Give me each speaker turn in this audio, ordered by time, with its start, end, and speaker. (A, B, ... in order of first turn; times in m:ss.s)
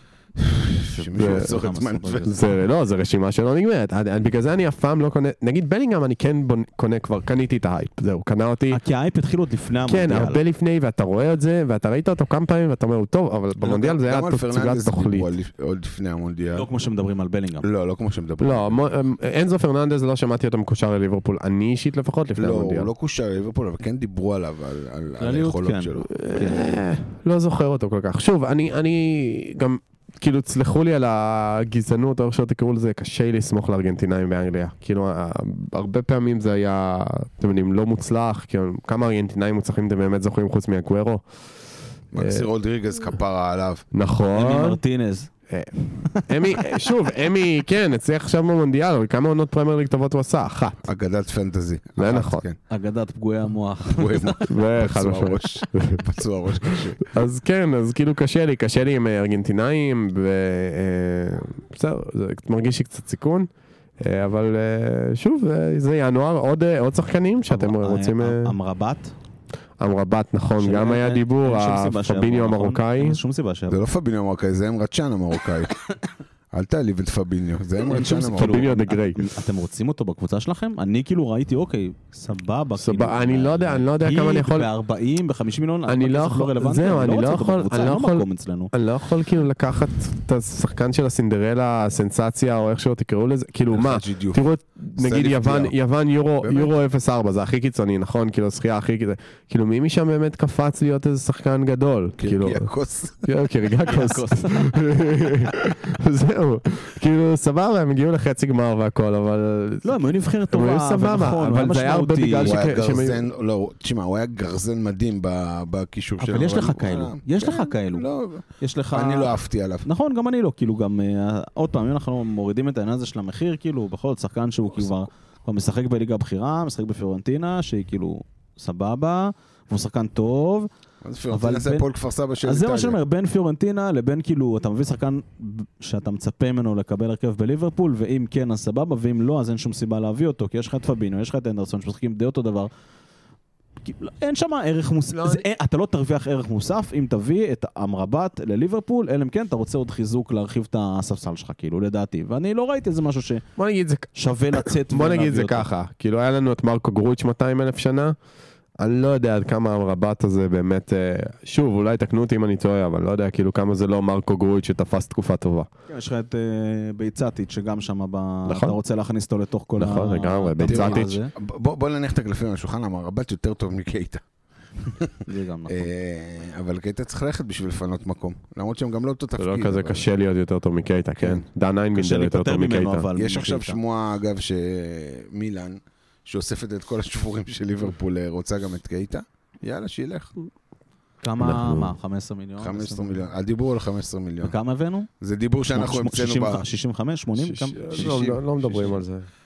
0:00.4-0:02.5 A
0:00.8-0:02.6 B
0:01.2-0:01.6 C
0:02.2-0:08.8 C
0:08.7-0:10.4 B
0:09.8-0:15.3 C
0:13.6-0:16.7 A
0:16.5-0:17.6 B
0:17.6-0:18.8 A
0:18.4-0:22.9 C
0:22.4-0:26.1 A
0:25.2-0:26.7 B
0:26.1-0:41.2 C
0:42.1-0:43.9 A
0:42.2-0:42.4 C
0:43.9-0:44.8 C
0:44.3-0:45.3 B
0:45.5-0:50.9 C
0:46.0-0:46.6 B
0:50.8-0:52.6 A
0:52.0-0:52.4 C
0:52.7-0:54.4 B
0:53.9-0:57.1 A
0:54.5-0:56.0 C
0:57.0-1:08.5 C
1:07.5-1:09.1 B
1:09.8-1:13.2 C
1:10.6-1:13.8 B
1:13.7-1:15.8 A
1:16.5-1:18.7 A
1:17.8-1:28.7 B
1:18.4-1:19.2 C
1:22.8-1:24.7 C
1:25.9-1:42.7 C
1:33.7-1:34.4 A
1:35.0-1:35.7 A
1:36.4-1:36.7 A
1:42.2-1:43.3 A
1:43.2-1:53.2 C
1:43.9-1:45.0 B
1:49.8-1:52.6 B
1:52.4-1:59.9 A
1:56.2-1:58.1 B
1:58.6-2:10.7 B
2:11.0-2:13.0 A
2:11.3-2:11.9 B
2:12.4-2:22.7 B
2:23.8-2:33.4 B
2:25.1-2:25.4 C
2:33.6-2:38.2 C
2:34.1-2:35.7 B
2:38.8-2:45.7 C
2:45.9-2:51.3 B
2:48.4-2:48.7 C
2:49.8-2:51.2 C
2:50.6-2:54.2 A
2:55.2-2:55.9 B
2:55.7-3:00.0 A
2:59.4-3:03.1 C
3:01.9-3:03.8 B
3:03.2-3:10.3 A
3:11.2-3:13.2 B
3:11.4-3:11.9 C
3:12.6-3:14.5 A
3:14.4-3:15.1 B
3:15.2-3:16.6 A
3:15.7-3:17.9 B
3:17.4-3:19.3 C
3:17.8-3:19.0 A